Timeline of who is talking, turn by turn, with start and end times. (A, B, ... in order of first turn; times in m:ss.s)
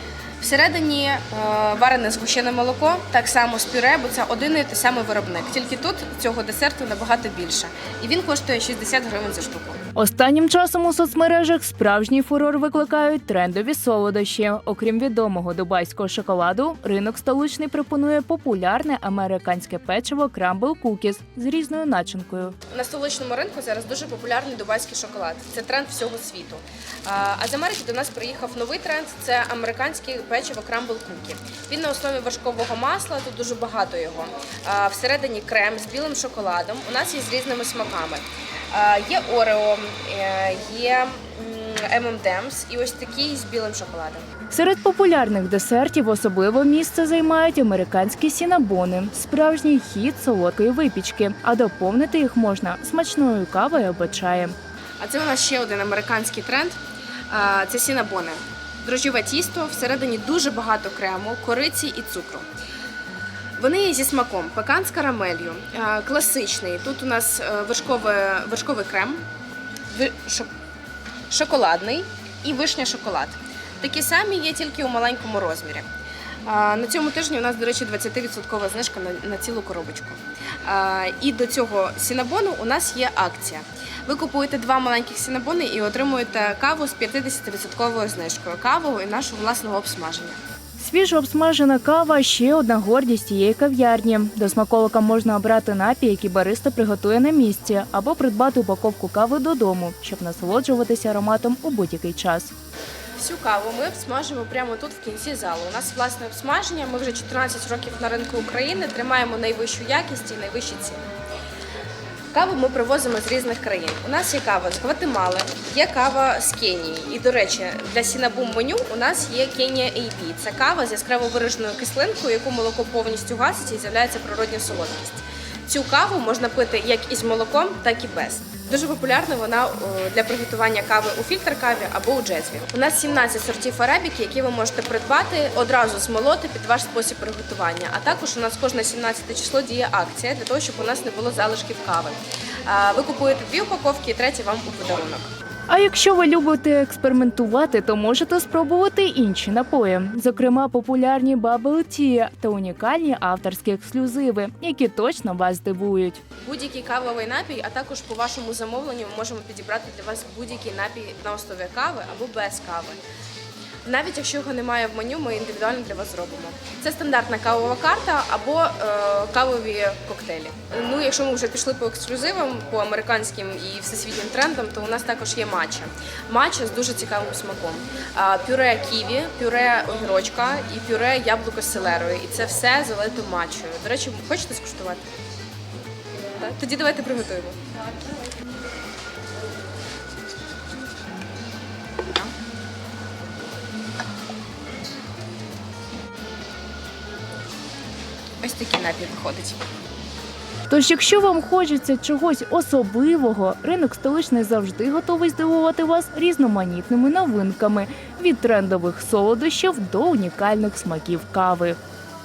0:00.4-0:09.8 A
0:10.0-0:22.6 B
0:22.7-0:44.2 A
0:44.5-0:54.5 B
0:55.0-0:56.8 A
0:57.3-1:02.5 A
1:03.6-1:09.2 A
1:09.9-1:10.5 A
1:11.3-1:15.9 A
1:16.4-1:30.4 A
1:30.8-1:42.5 B
1:43.2-1:51.0 A
1:52.3-2:25.3 A
2:25.7-2:36.2 B
2:36.4-2:43.0 A
2:43.8-3:05.0 A
3:06.4-3:07.6 A
3:18.4-3:19.6 A
3:20.7-3:31.8 B